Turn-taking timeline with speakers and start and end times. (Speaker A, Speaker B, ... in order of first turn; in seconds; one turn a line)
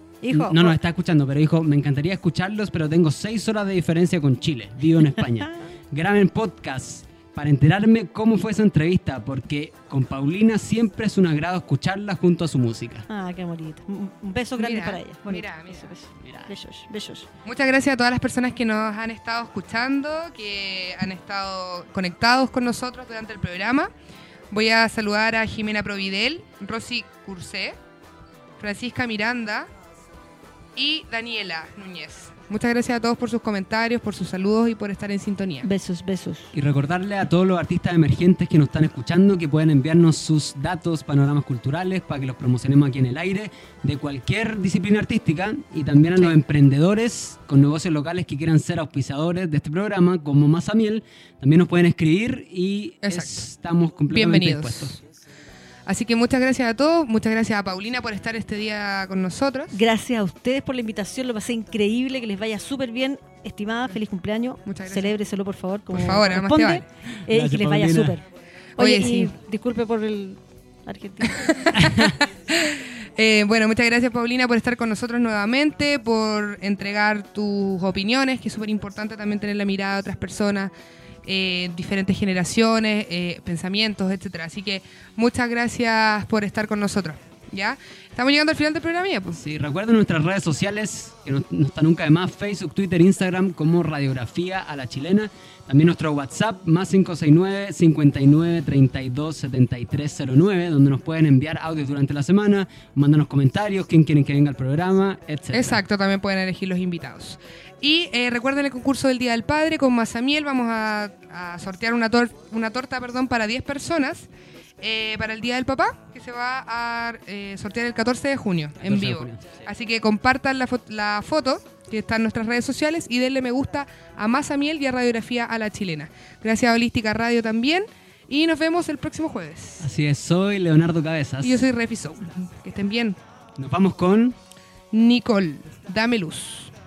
Speaker A: 0.2-0.8
Speaker B: 0.3-13.1
Speaker A: 5.4-5.7
Speaker A: 13.1-17.3
Speaker C: 14.6-15.9
Speaker B: 16.2-16.5
Speaker C: 17.4-23.9
Speaker C: 24.5-27.8
Speaker C: 28.6-29.7
Speaker C: 30.8-35.7
Speaker A: 35.6-36.5
Speaker B: 36.5-55.0
Speaker C: 53.0-53.3
Speaker C: 54.1-55.0
Speaker C: 55.9-59.8
Speaker A: 59.7-68.2
Speaker C: 64.7-65.2
Speaker C: 65.9-66.8
Speaker B: 67.2-68.2
Speaker A: 68.8-71.7
Speaker C: 68.8-69.3
Speaker C: 71.3-80.7
Speaker B: 71.8-72.1
Speaker C: 81.2-89.4
Speaker B: 89.3-105.8
Speaker C: 105.5-114.3
Speaker C: 114.8-129.9
Speaker B: 118.8-119.7
Speaker B: 129.8-131.7
Speaker C: 131.4-133.2
Speaker B: 133.6-134.4
Speaker C: 134.9-136.7